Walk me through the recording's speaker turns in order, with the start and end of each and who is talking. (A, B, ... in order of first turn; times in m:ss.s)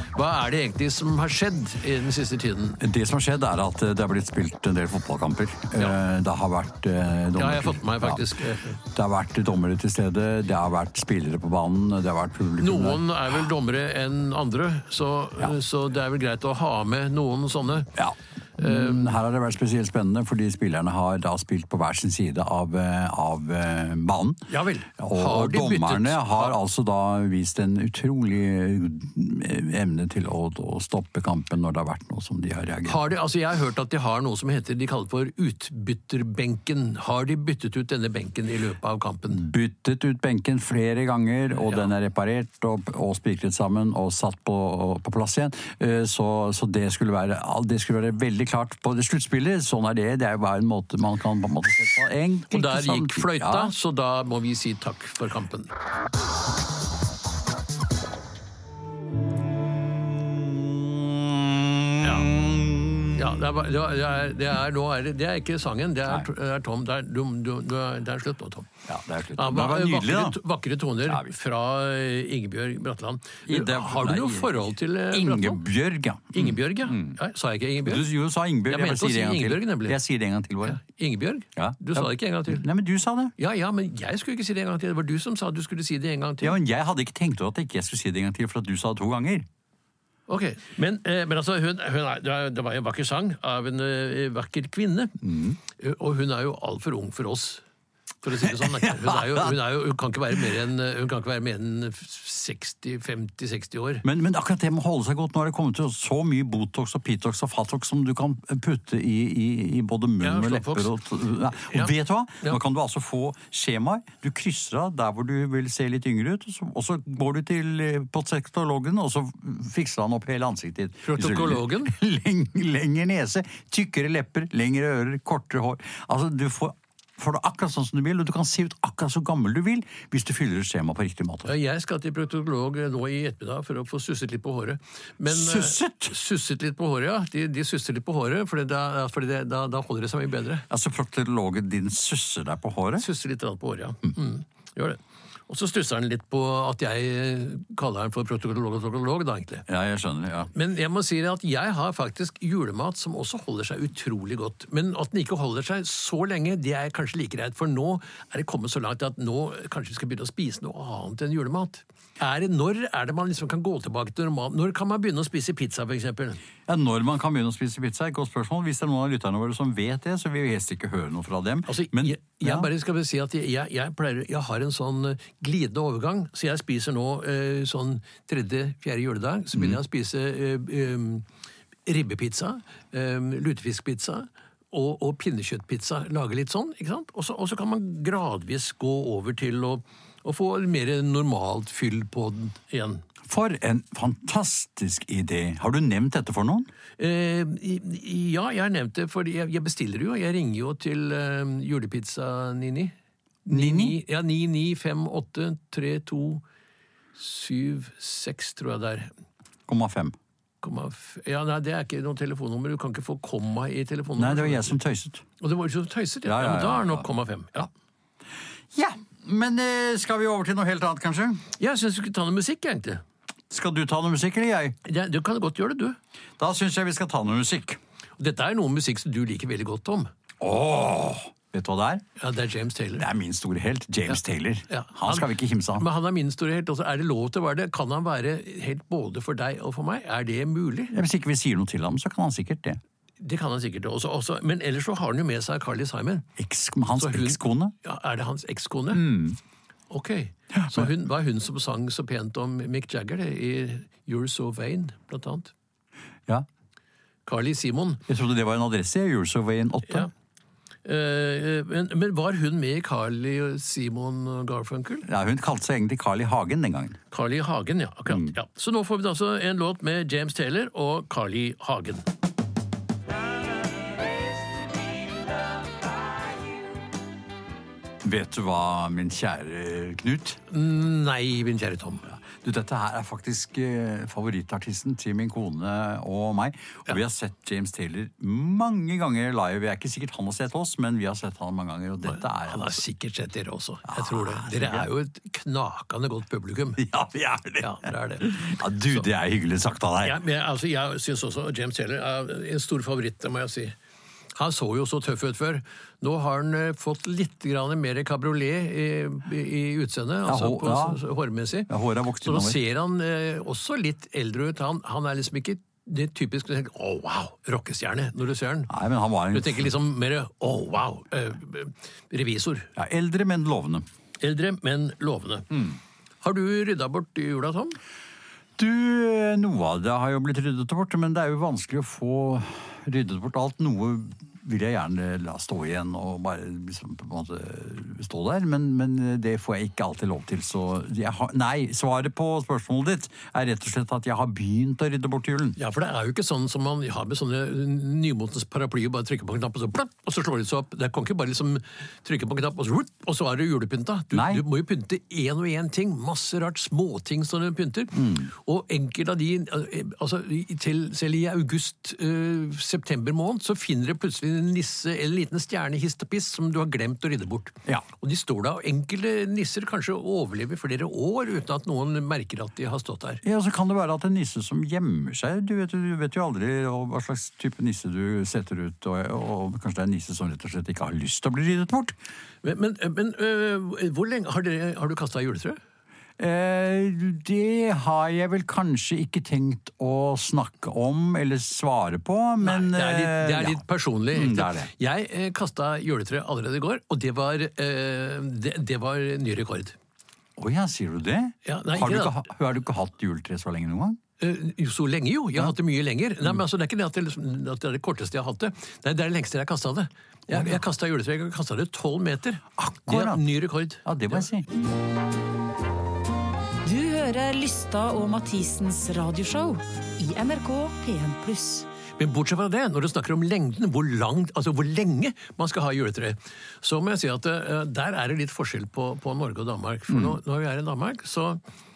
0:00.1-0:02.8 A
0:02.8-0:13.0 B
0:07.4-0:08.8 A
0:12.6-0:17.9 A
0:18.0-0:33.1 B
0:18.6-0:19.2 A
0:24.5-0:26.6 A
0:32.8-0:39.5 A
0:39.3-0:53.7 B
0:41.5-0:41.9 A
0:52.5-0:55.7 A
1:00.3-1:03.4 B
1:02.0-1:02.3 A
1:03.1-1:08.7 A
1:08.9-1:10.4 B
1:09.4-1:15.6 A
1:11.0-1:11.3 B
1:13.5-1:17.2 B
1:16.3-1:18.1 A
1:17.8-1:20.8 B
1:18.6-1:20.0 A
1:20.6-1:22.6 A
1:21.6-1:23.3 B
1:23.4-1:26.6 A
1:26.4-1:29.5 B
1:30.3-1:37.6 A
1:35.2-1:35.6 B
1:38.2-1:44.0 A
1:38.4-1:39.6 B
1:44.0-2:11.5 B
1:50.2-1:50.9 A
1:51.6-1:52.6 A
2:01.0-2:01.9 A
2:11.4-2:20.6 A
2:15.2-2:16.1 B
2:20.7-2:23.0 B
2:23.0-2:29.6 A
2:29.7-2:30.5 B
2:30.5-2:46.4 A
2:46.6-2:52.7 B
2:51.7-3:01.2 A
2:59.5-2:59.8 B
3:01.8-3:13.0 A
3:13.2-3:16.7 B
3:17.0-3:22.9 A
3:23.4-3:26.4 A
3:23.5-3:24.0 B
3:27.2-3:29.1 A
3:29.7-3:30.1 B
3:30.6-3:34.8 A
3:34.2-3:35.2 B
3:35.4-3:37.7 A
3:36.2-3:37.0 B
3:38.7-3:41.4 B
3:41.6-3:43.0 A
3:43.5-3:44.8 B
3:44.8-3:46.0 A
3:46.4-3:47.8 B
3:48.2-3:50.1 A
3:50.4-3:52.0 B
3:52.2-3:53.0 A
3:53.0-3:55.8 B
3:54.7-4:00.9 A
4:00.9-4:02.8 B
4:03.2-4:06.3 A
4:06.4-4:07.7 B
4:07.0-4:09.0 A
4:08.9-4:09.4 B
4:09.9-4:15.5 A
4:10.5-4:10.9 B
4:17.2-4:18.0 A
4:18.1-4:20.1 B
4:20.8-4:25.0 A
4:25.0-4:27.0 B
4:27.1-4:32.1 A
4:38.0-4:40.4 B
4:40.5-4:42.1 A
4:42.1-4:52.8 B
4:52.0-4:56.8 A
4:53.9-4:54.9 B
4:56.8-5:00.2 B
4:57.6-4:59.1 A
5:00.0-5:03.8 A
5:04.3-5:11.7 A
5:10.2-5:11.0 B
5:11.7-5:12.6 B
5:12.2-5:18.7 A
5:18.7-5:19.7 B
5:19.3-5:22.7 A
5:22.8-5:23.8 B
5:24.2-5:27.8 A
5:28.6-5:45.6 B
5:45.6-6:13.2 A
5:54.1-5:54.4 B
5:57.9-5:58.3 B
6:13.2-6:21.9 B
6:22.4-6:25.6 A
6:26.2-6:34.7 B
6:32.4-6:39.8 A
6:40.4-6:44.0 B
6:41.4-6:42.2 A
6:44.2-6:54.2 A
6:50.3-6:50.6 B
6:52.6-6:53.3 B
6:53.8-6:54.4 B
6:56.6-7:01.6 C
7:02.0-7:11.4 A
7:09.9-7:10.2 B